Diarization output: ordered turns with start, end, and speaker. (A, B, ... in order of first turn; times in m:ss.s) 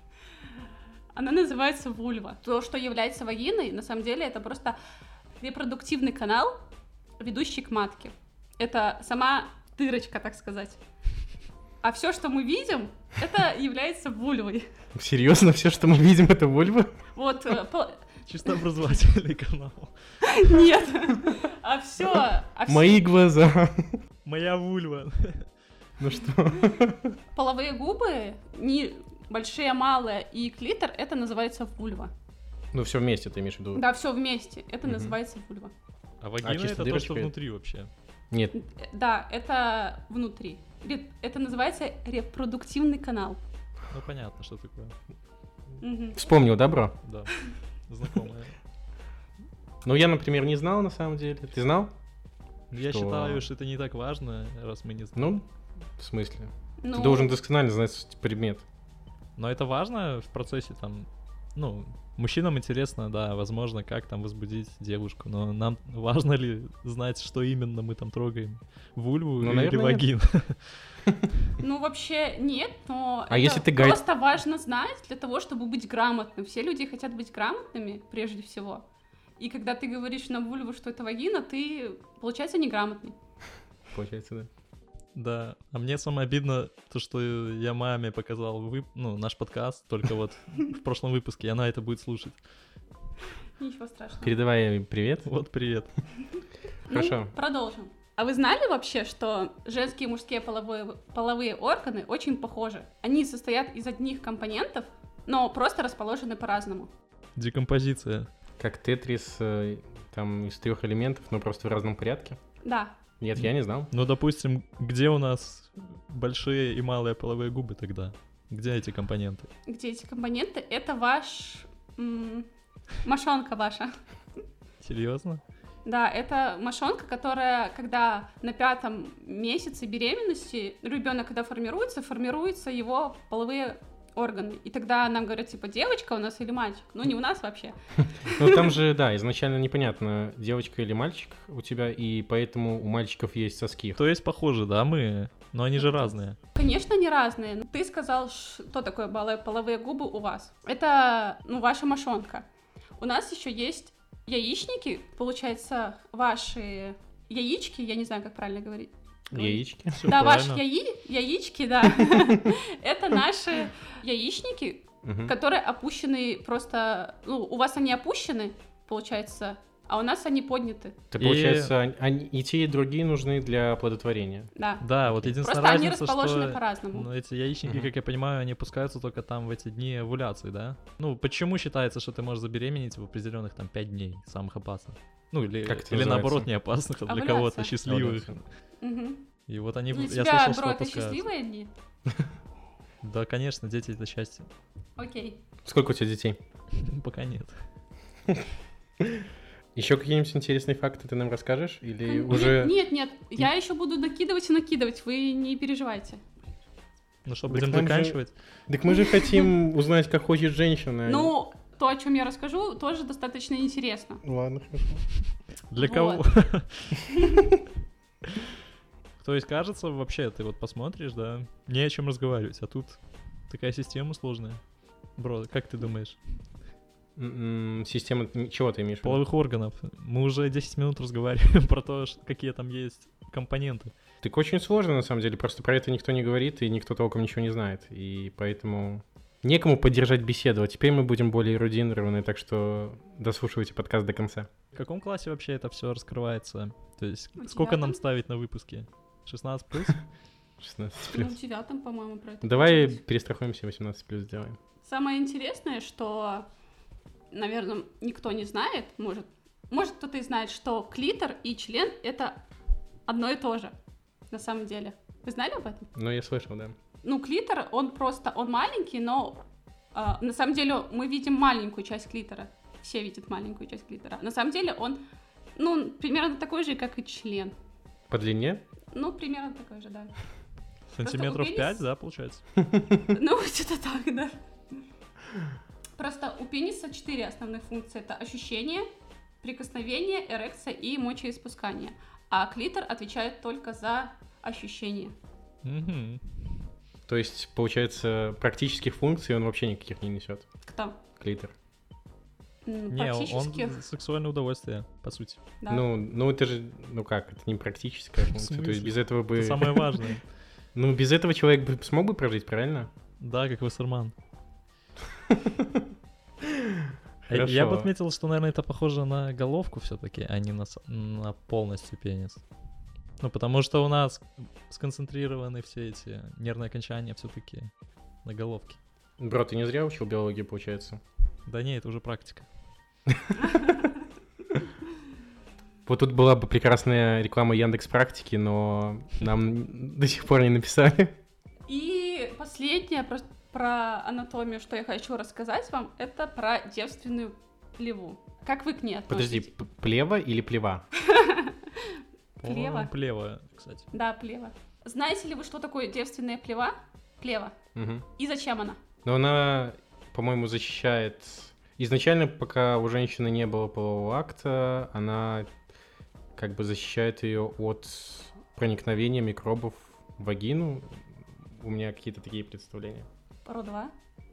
0:01.1-0:04.8 A
0:05.4-0:06.6 A
0:07.2-0:10.8 A
0:11.8-0:14.7 A
0:14.9-0:16.9 B
0:17.1-0:18.0 A
0:18.2-0:20.2 C
0:20.2-0:23.0 A
0:22.7-0:24.0 B
0:24.2-0:25.5 C
0:26.0-0:27.2 B
0:27.3-0:32.1 A
0:32.7-0:33.8 B
0:33.7-0:35.7 A
0:34.8-0:35.2 B
0:36.2-0:37.9 C
0:36.4-0:37.3 B
0:38.5-0:43.4 A
0:43.9-0:44.9 C
0:45.8-0:46.2 A
0:46.1-0:47.0 B
0:47.0-0:47.3 C
0:47.9-0:48.6 C
0:49.8-0:51.9 B
0:52.7-0:55.3 C
0:52.8-0:53.4 B
0:55.2-0:55.4 B
0:56.0-0:58.6 B
0:56.8-0:57.3 A
0:59.4-1:10.8 C
1:09.4-1:10.1 B
1:11.6-1:18.8 A
1:13.3-1:14.0 B
1:19.4-1:23.1 A
1:23.9-1:24.5 B
1:25.1-1:32.4 C
1:33.6-1:34.3 A
1:34.2-1:35.3 B
1:35.2-1:35.9 C
1:36.9-1:46.9 A
1:36.9-1:37.3 B
1:47.4-1:48.3 C
1:48.6-1:52.4 B
1:52.6-1:53.0 A
1:53.2-1:53.9 B
1:53.4-1:59.5 C
1:59.6-2:02.5 A
2:03.0-2:03.9 A
2:04.8-2:05.4 C
2:05.8-2:18.8 A
2:18.2-2:24.0 B
2:24.0-2:26.4 C
2:25.8-2:32.4 A
2:33.0-2:51.0 A
2:39.3-2:40.0 B
2:39.9-2:40.6 C
2:42.0-2:42.5 B
2:45.0-2:45.3 B
2:51.1-2:54.5 B
2:51.2-2:51.7 C
2:54.5-2:54.8 A
2:54.8-3:08.4 C
2:55.0-2:55.3 B
2:55.4-2:57.1 A
2:57.6-2:57.9 B
3:05.6-3:06.5 B
3:07.0-3:07.7 A
3:07.8-3:08.4 B
3:08.8-3:09.2 A
3:09.5-3:11.2 C
3:09.9-3:11.7 A
3:13.0-3:14.5 C
3:15.0-3:15.4 A
3:15.6-3:16.4 B
3:16.7-3:17.6 C
3:19.8-3:22.7 B
3:22.0-3:26.2 A
3:27.2-3:28.3 C
3:27.5-3:31.3 B
3:28.9-3:29.5 A
3:31.0-3:34.2 A
3:34.2-3:35.0 B
3:35.7-3:37.0 C
3:35.8-3:36.2 A
3:39.2-3:44.6 C
3:45.2-3:46.2 C
3:47.2-3:49.2 B
3:49.0-3:53.9 C
3:54.2-4:04.5 B
4:04.7-4:10.0 C
4:07.4-4:08.0 A
4:10.6-4:11.3 B
4:11.0-4:13.0 A
4:12.4-4:14.6 B
4:14.8-4:16.5 A
4:17.3-4:22.4 A
4:23.1-4:23.7 A
4:24.3-4:25.9 A
4:25.9-4:26.7 B
4:27.0-4:29.4 A
4:29.9-4:35.0 A
4:35.6-4:37.5 A
4:38.1-4:38.6 B
4:38.9-4:40.1 A
4:40.9-4:42.4 C
4:41.0-4:41.8 A
4:42.6-4:43.1 B
4:43.1-4:44.4 A
4:46.0-4:48.9 A
4:49.4-4:55.1 A
4:55.6-4:56.6 C
4:57.1-5:00.4 B
5:00.6-5:01.0 A
5:01.2-5:01.5 B
5:02.6-5:03.8 A
5:02.9-5:05.4 C
5:05.7-5:10.0 B
5:08.2-5:10.2 C
5:10.7-5:12.9 B
5:13.2-5:14.1 C
5:15.3-5:15.8 B
5:16.4-5:17.9 B
5:17.3-5:22.4 C
5:23.2-5:27.7 C
5:28.2-5:28.8 C
5:29.2-5:31.0 B
5:31.4-5:32.5 C
5:33.1-5:33.7 B
5:33.4-5:34.0 A
5:35.8-5:41.2 B
5:41.7-5:49.5 A
5:49.1-5:50.8 B
5:51.0-5:52.9 A
5:52.4-5:53.9 C
5:53.9-5:57.6 A
5:57.7-5:58.0 B
5:58.2-5:58.8 A
5:59.0-6:05.5 B
6:06.4-6:13.1 B
6:13.4-6:13.9 A